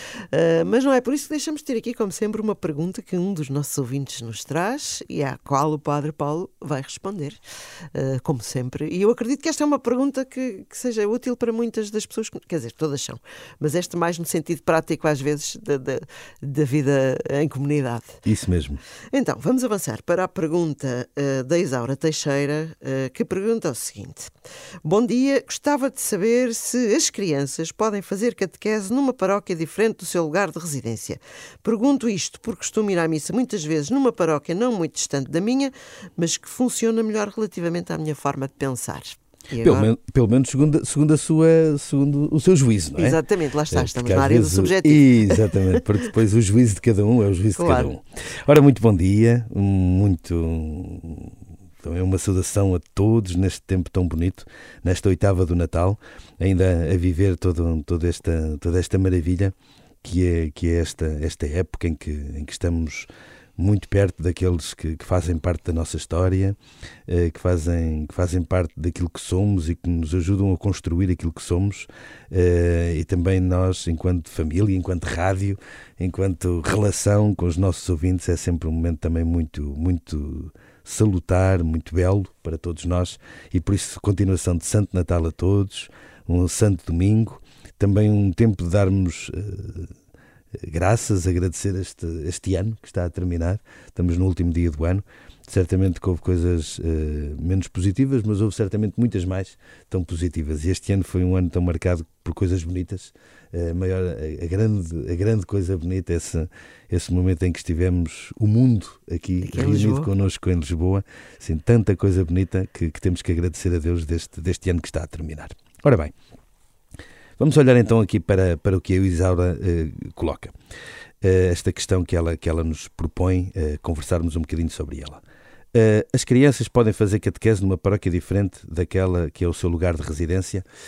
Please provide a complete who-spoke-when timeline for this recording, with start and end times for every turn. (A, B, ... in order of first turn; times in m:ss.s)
0:00.3-0:07.4 A
0:07.9-0:18.2 A
0:18.2-0:18.8 B
0:19.1-0:24.3 A
0:24.8-0:39.9 A
0:39.6-0:43.2 B
0:43.0-0:45.7 A
0:43.7-1:29.9 B
0:47.6-0:47.9 A
1:30.6-1:56.1 B
1:49.4-1:50.1 A
1:57.4-2:00.5 B
2:01.2-2:05.2 B
2:05.7-2:10.7 B